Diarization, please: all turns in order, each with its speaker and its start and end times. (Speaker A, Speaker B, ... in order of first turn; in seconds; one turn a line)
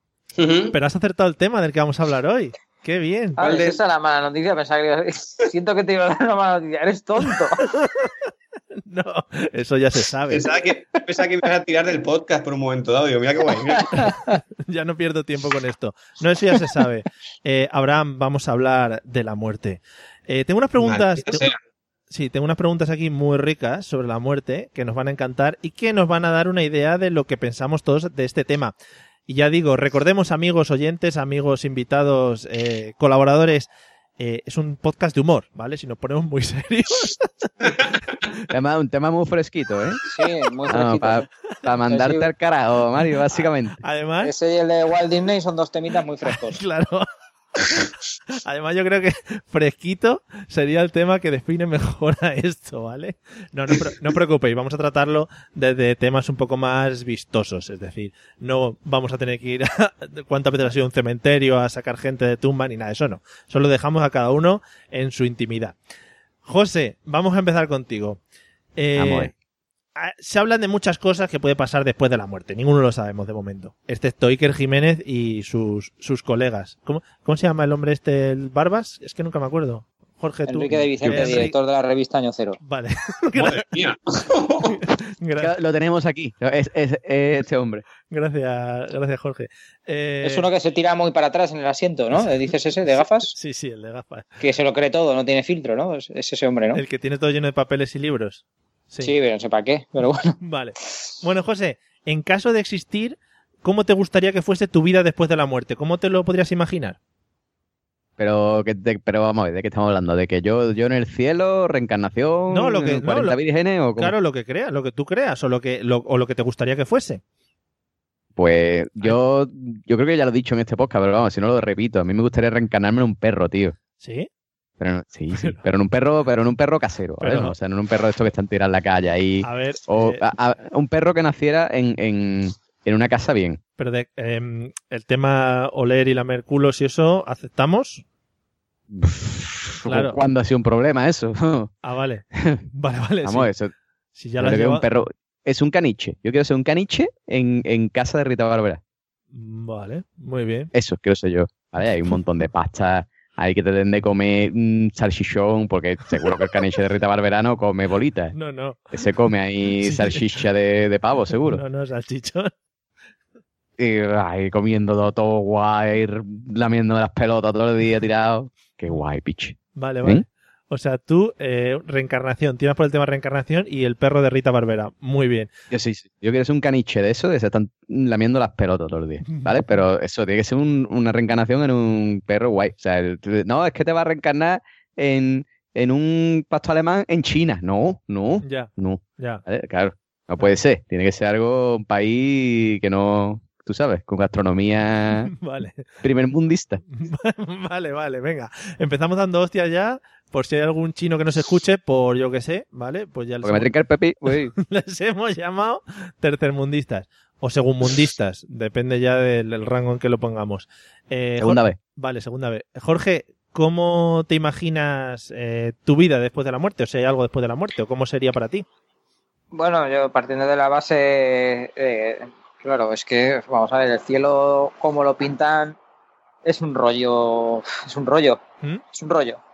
Speaker A: 0.4-0.7
Speaker B: 0.7-3.4
Speaker C: 3.4-7.6
Speaker A: 3.4-3.8
Speaker B: 7.6-8.1
Speaker B: 8.8-10.5
Speaker A: 10.3-14.1
Speaker B: 14.0-21.5
Speaker A: 20.8-21.6
Speaker B: 22.1-28.7
Speaker B: 29.3-37.9
Speaker D: 38.5-40.0
Speaker C: 40.1-41.3
Speaker D: 40.7-43.8
Speaker C: 41.9-42.3
Speaker B: 43.3-44.3
Speaker C: 44.2-46.6
Speaker B: 46.2-47.1
Speaker B: 47.6-65.8
Speaker B: 66.5-68.2
Speaker B: 68.8-69.3
Speaker D: 69.0-69.3
Speaker B: 70.0-81.5
Speaker C: 80.5-82.6
Speaker D: 81.0-81.3
Speaker B: 82.6-83.7
Speaker A: 83.4-84.8
Speaker B: 84.7-85.5
Speaker D: 85.4-87.8
Speaker B: 88.1-90.5
Speaker C: 90.2-93.3
Speaker B: 92.2-94.4
Speaker C: 94.4-96.8
Speaker B: 96.7-99.1
Speaker C: 99.0-100.4
Speaker B: 100.4-107.0
Speaker D: 108.2-114.2
Speaker B: 112.5-113.4
Speaker B: 114.0-117.2
Speaker D: 118.4-123.8
Speaker B: 124.0-124.3
Speaker D: 124.8-133.6
Speaker B: 127.2-127.5
Speaker B: 129.4-130.2
Speaker B: 133.8-138.0
Speaker D: 138.9-141.7
Speaker B: 139.9-140.2
Speaker B: 141.8-143.5
Speaker D: 142.4-142.6
Speaker D: 143.2-143.7
Speaker B: 144.2-144.9
Speaker D: 144.4-148.8
Speaker B: 149.3-150.7
Speaker D: 150.7-158.3
Speaker B: 158.3-158.9
Speaker D: 158.9-161.6
Speaker B: 159.8-160.4
Speaker B: 161.5-162.5
Speaker D: 163.8-170.2
Speaker B: 169.8-175.5
Speaker D: 175.7-195.3
Speaker B: 179.2-179.8
Speaker B: 188.4-189.4
Speaker B: 195.3-195.9
Speaker D: 196.0-196.8
Speaker B: 196.9-203.7
Speaker D: 203.4-204.5
Speaker B: 204.6-218.7
Speaker D: 211.4-211.8
Speaker C: 219.5-225.8
Speaker C: 226.4-228.4
Speaker C: 228.9-229.4